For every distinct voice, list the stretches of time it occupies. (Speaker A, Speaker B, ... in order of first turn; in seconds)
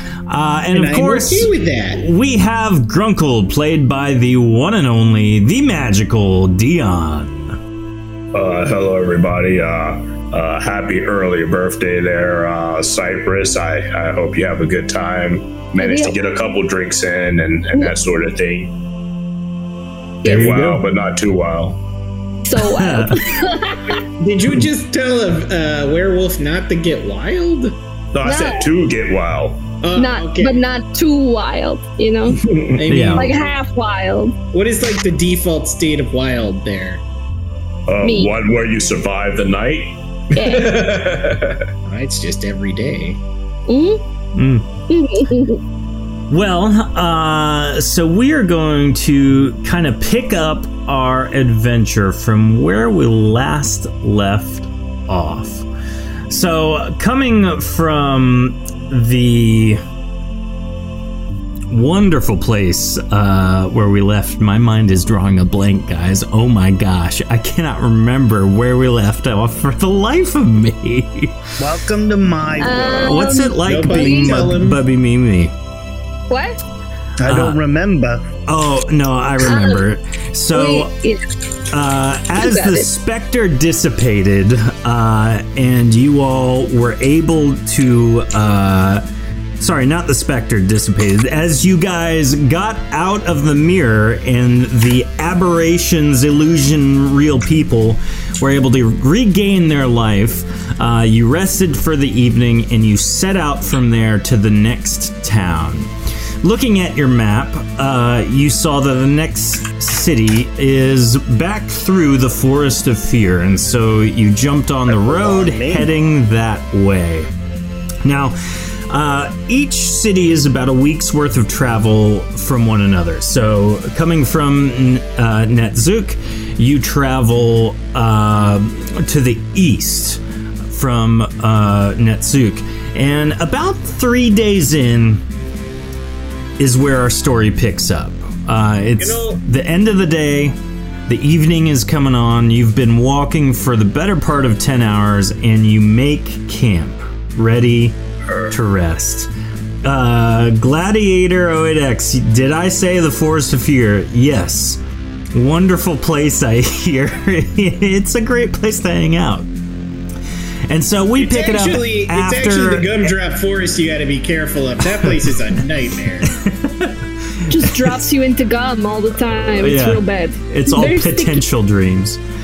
Speaker A: 0.3-7.6, 20.2-20.8, 22.6-23.3, 32.9-33.3, 44.3-44.7, 46.3-55.7, 56.3-59.8, 61.7-71.5, 72.8-75.5, 77.2-77.6, 78.5-80.9, 81.7-89.0, 89.6-105.9, 106.4-117.3, 118.0-118.3, 118.9-135.2, 136.6-140.6, 141.1-148.0, 148.5-149.3, 149.8-154.8, 155.3-159.5, 160.7-163.1, 166.3-168.0, 169.5-172.2
Speaker B: 0.7-2.0, 23.8-27.8, 29.8-30.6, 32.7-33.5, 34.5-37.0, 41.8-43.2, 73.6-74.8, 139.0-139.4, 161.2-166.3
Speaker C: 8.3-18.7, 20.2-21.8, 28.1-29.6, 32.4-32.8, 37.9-41.7, 148.3-148.5
Speaker D: 15.8-16.1, 22.4-24.0, 28.2-28.7, 29.9-32.4, 33.1-34.3, 38.0-38.3, 40.3-40.9, 43.7-44.0, 44.9-45.6, 72.6-74.3, 76.3-76.6, 79.4-79.8, 80.5-81.2, 82.4-82.9, 167.5-171.4
Speaker E: 71.6-73.2, 77.2-78.2, 114.9-115.9